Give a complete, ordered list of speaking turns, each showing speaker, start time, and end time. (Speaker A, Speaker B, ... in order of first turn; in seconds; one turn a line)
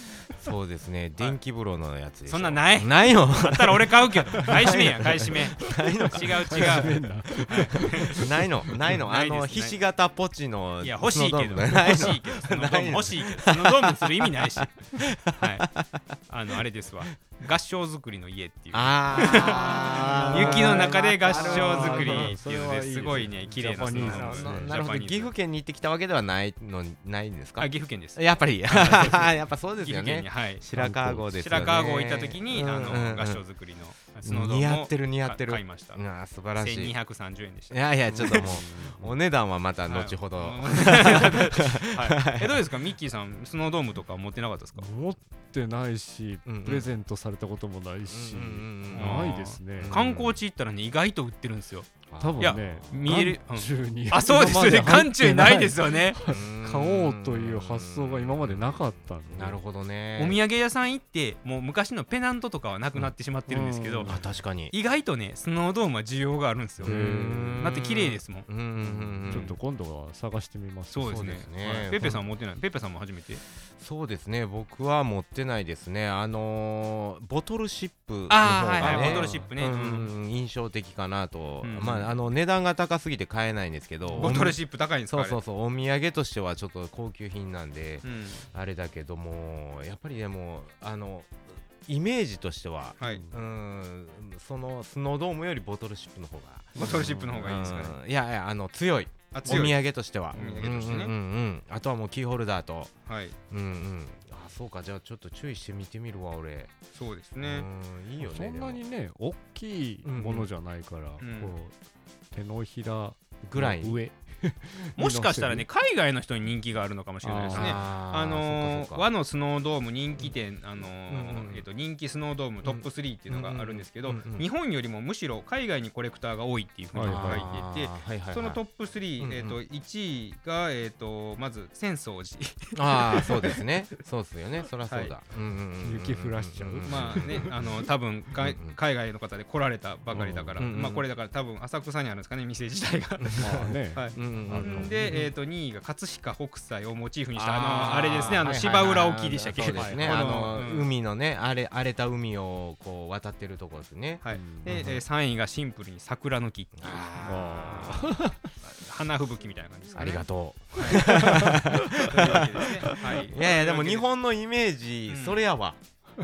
Speaker A: 0.4-15.9
Speaker B: 2.3-8.1
Speaker C: 4.3-4.8
Speaker C: 5.7-8.8
Speaker B: 8.9-9.8
Speaker B: 10.8-14.7
Speaker B: 15.4-15.7
Speaker B: 16.3-25.3
Speaker A: 18.7-22.4
Speaker C: 19.3-24.8
Speaker A: 23.9-33.4
Speaker B: 27.6-30.6
Speaker C: 30.7-31.8
Speaker B: 31.3-36.0
Speaker A: 34.2-37.0
Speaker B: 36.6-38.5
Speaker A: 37.7-42.7
Speaker C: 38.1-39.2
Speaker B: 39.9-44.9
Speaker C: 44.8-50.0
Speaker A: 46.5-46.9
Speaker A: 48.1-50.4
Speaker B: 48.9-51.9
Speaker A: 52.1-53.0
Speaker C: 52.2-59.6
Speaker B: 52.4-56.2
Speaker A: 56.3-60.4
Speaker B: 60.2-64.2
Speaker C: 63.5-64.2
Speaker A: 64.1-64.7
Speaker B: 64.7-67.0
Speaker A: 66.8-69.6
Speaker C: 66.8-67.8
Speaker B: 67.6-68.5
Speaker C: 68.8-71.3
Speaker B: 70.9-73.4
Speaker A: 71.0-72.2
Speaker A: 73.8-102.9
Speaker B: 78.3-80.1
Speaker C: 78.8-79.5
Speaker B: 81.6-82.1
Speaker C: 84.1-84.5
Speaker B: 84.2-85.4
Speaker B: 88.0-88.4
Speaker B: 93.0-93.2
Speaker C: 93.0-93.4
Speaker B: 96.8-98.0
Speaker C: 96.8-97.6
Speaker B: 99.3-99.8
Speaker B: 100.3-101.1
Speaker C: 100.3-100.7
Speaker B: 103.1-103.4
Speaker A: 103.5-106.7
Speaker B: 106.9-107.7
Speaker A: 107.4-108.8
Speaker C: 108.2-111.7
Speaker A: 110.0-110.5
Speaker B: 111.2-111.5
Speaker C: 112.3-115.7
Speaker A: 113.5-114.0
Speaker B: 115.0-133.7
Speaker C: 117.2-117.9
Speaker A: 117.5-119.1
Speaker A: 121.1-121.7
Speaker A: 122.6-124.5
Speaker C: 126.9-127.5
Speaker A: 127.1-128.6
Speaker A: 129.2-129.6
Speaker A: 132.8-137.5
Speaker B: 134.9-135.2
Speaker C: 135.8-137.6
Speaker B: 136.8-150.9
Speaker A: 138.4-138.8
Speaker C: 140.1-140.6
Speaker A: 140.6-141.1
Speaker A: 143.3-145.2
Speaker C: 143.3-145.3
Speaker A: 147.3-155.0
Speaker C: 149.8-150.5
Speaker B: 154.2-158.1
Speaker C: 154.3-155.0
Speaker A: 156.8-158.1
Speaker C: 157.2-158.4
Speaker B: 158.6-161.1
Speaker A: 159.9-165.8
Speaker C: 160.9-161.8
Speaker B: 161.9-164.1
Speaker B: 165.1-165.4